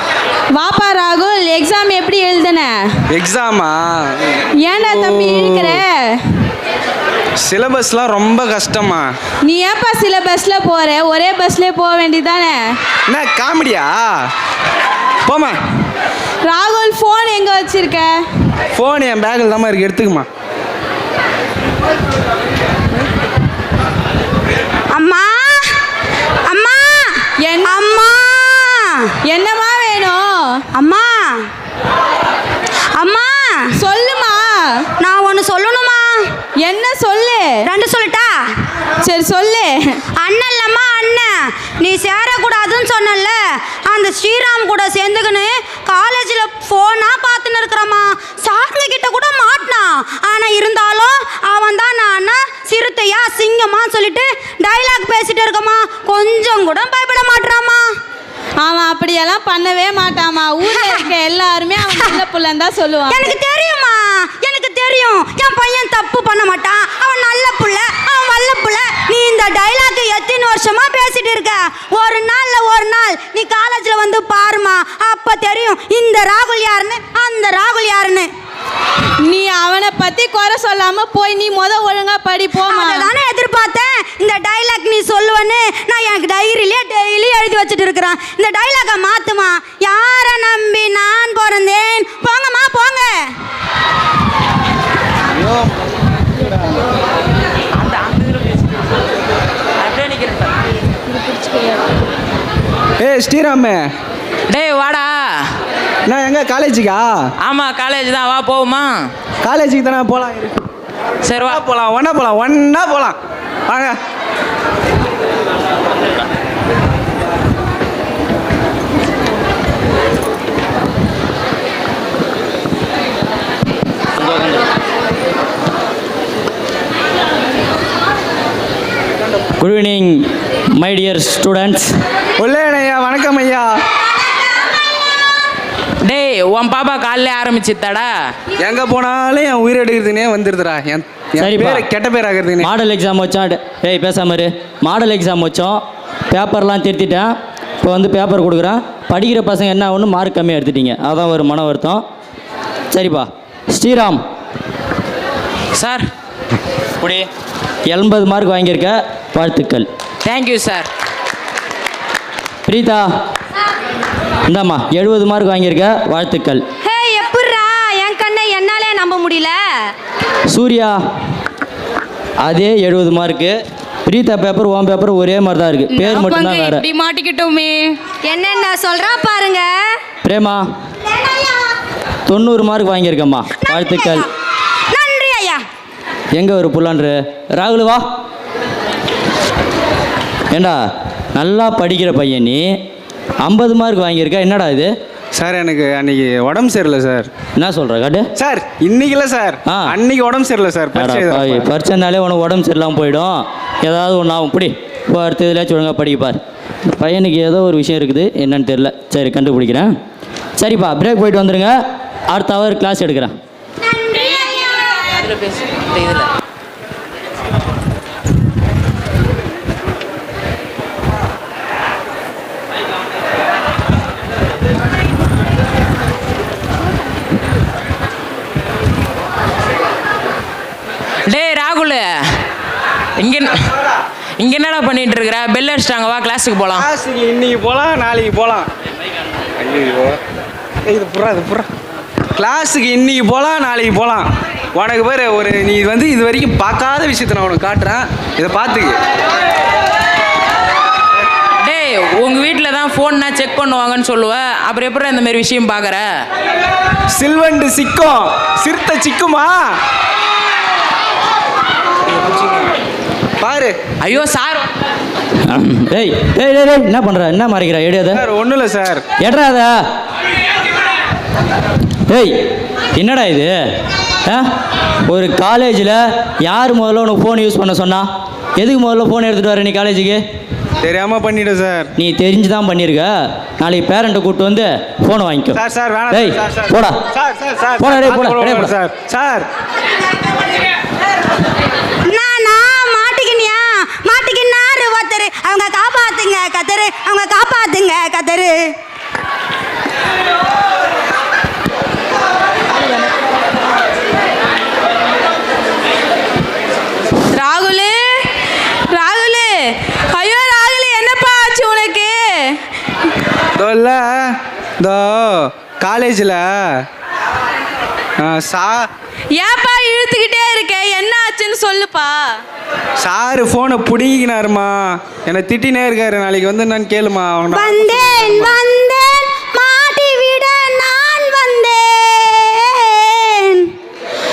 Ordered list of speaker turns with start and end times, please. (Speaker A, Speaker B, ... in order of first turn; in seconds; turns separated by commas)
Speaker A: 0.6-2.8, Speaker B: 3.1-3.8, Speaker A: 4.6-6.2, Speaker B: 4.9-5.7, Speaker B: 7.4-9.1, Speaker A: 9.5-12.6, Speaker B: 13.1-14.0, Speaker B: 15.2-15.6, Speaker A: 16.5-18.1, Speaker B: 18.8-20.3, Speaker C: 24.9-25.7, Speaker C: 26.5-29.1, Speaker A: 27.4-27.9, Speaker A: 29.2-30.6, Speaker C: 30.7-31.5, Speaker C: 33.0-33.7, Speaker A: 33.7-34.9, Speaker C: 35.0-36.3, Speaker A: 36.6-37.6, Speaker C: 37.6-38.5, Speaker A: 39.0-40.0, Speaker C: 40.2-57.9, Speaker A: 58.6-63.4, Speaker C: 60.6-61.0, Speaker C: 63.1-78.3, Speaker A: 79.2-83.1, Speaker C: 82.7-93.2, Speaker D: 97.8-98.8, Speaker D: 99.8-100.6, Speaker B: 103.0-103.8, Speaker D: 104.5-105.4, Speaker B: 106.1-107.1, Speaker D: 107.5-109.1, Speaker B: 109.4-110.5, Speaker D: 111.2-111.6, Speaker B: 111.4-113.2, Speaker B: 113.7-114.0, Speaker E: 124.2-124.6, Speaker E: 129.6-131.9, Speaker B: 132.4-133.7, Speaker D: 136.0-138.1, Speaker B: 138.6-142.7, Speaker E: 141.4-141.9, Speaker E: 142.6-152.0, Speaker E: 152.9-154.2, Speaker D: 155.8-156.1, Speaker E: 157.9-159.9, Speaker D: 160.2-160.9, Speaker E: 162.7-163.1, Speaker E: 164.5-166.7, Speaker C: 166.9-169.6, Speaker E: 170.5-171.0, Speaker E: 172.4-176.8, Speaker A: 176.9-177.7, Speaker C: 178.2-179.9, Speaker E: 180.2-180.7, Speaker C: 181.1-181.7, Speaker E: 182.3-184.3, Speaker C: 183.6-184.3, Speaker C: 184.9-185.6, Speaker E: 186.3-188.0, Speaker E: 190.5-190.8, Speaker E: 191.3-192.7, Speaker E: 193.4-194.9, Speaker B: 195.3-197.3, Speaker E: 197.6-198.3, Speaker B: 198.4-201.7, Speaker E: 199.7-199.9, Speaker E: 200.9-206.4, Speaker E: 206.9-209.9, Speaker E: 210.6-211.8, Speaker E: 212.3-213.3, Speaker D: 215.0-216.3, Speaker D: 231.3-232.2, Speaker D: 233.2-233.6, Speaker D: 234.4-236.9, Speaker B: 236.8-238.7, Speaker B: 239.6-240.2, Speaker B: 240.9-241.7, Speaker B: 242.3-249.0, Speaker D: 251.6-256.1, Speaker B: 257.1-259.8, Speaker B: 263.4-263.8, Speaker D: 264.0-264.7, Speaker E: 265.5-268.2, Speaker B: 268.1-269.0, Speaker E: 269.2-269.8, Speaker E: 272.1-272.4, Speaker E: 273.0-273.5, Speaker E: 275.1-280.2, Speaker B: 280.8-281.9, Speaker E: 282.0-285.6, Speaker B: 285.5-289.5, Speaker E: 286.1-287.0, Speaker E: 287.8-288.7, Speaker C: 292.1-298.8, Speaker A: 307.3-308.2, Speaker A: 308.9-312.6, Speaker B: 313.6-314.1, Speaker B: 314.8-316.5, Speaker B: 318.2-318.9, Speaker A: 319.3-322.3, Speaker B: 323.0-328.6, Speaker C: 327.5-333.7